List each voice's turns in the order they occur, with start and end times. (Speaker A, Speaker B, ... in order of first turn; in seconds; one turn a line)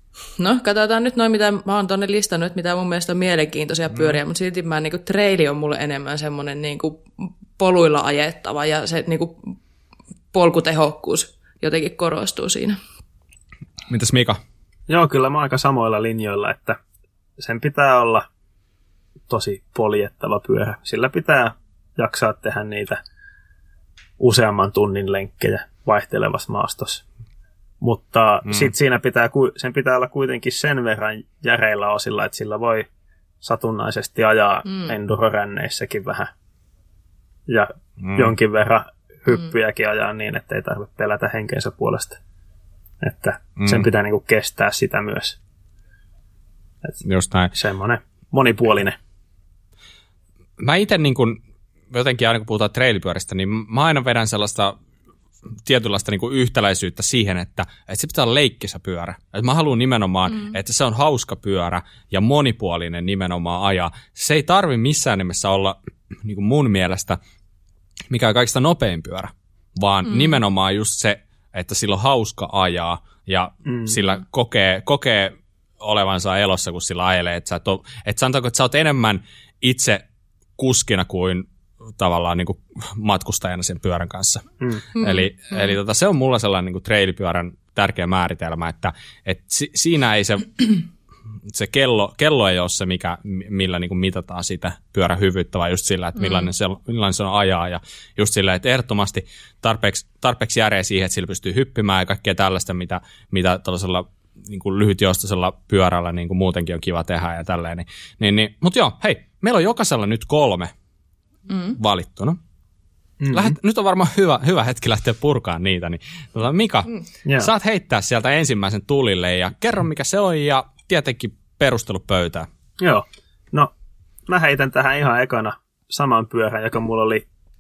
Speaker A: 0.4-9.5
Speaker A: 10.3-12.8
Speaker B: 13.9-14.4
Speaker C: 14.9-16.8
Speaker C: 17.4-18.3
Speaker C: 19.3-23.0
Speaker C: 24.2-27.0
Speaker C: 27.8-32.9
Speaker B: 28.5-28.7
Speaker C: 33.4-36.3
Speaker A: 34.7-34.9
Speaker C: 37.5-42.2
Speaker B: 38.0-38.3
Speaker C: 43.0-45.4
Speaker B: 43.6-43.9
Speaker B: 47.0-47.5
Speaker C: 47.5-49.0
Speaker B: 50.6-51.4
Speaker B: 51.9-54.8
Speaker B: 55.6-67.2
Speaker B: 68.1-80.0
Speaker C: 73.7-74.0
Speaker B: 80.6-90.9
Speaker A: 85.0-85.6
Speaker B: 91.5-110.7
Speaker A: 96.2-96.5
Speaker A: 111.5-111.8
Speaker B: 111.8-112.4
Speaker C: 113.2-113.6
Speaker B: 113.3-122.5
Speaker C: 117.2-117.5
Speaker C: 122.8-123.7
Speaker C: 124.3-127.2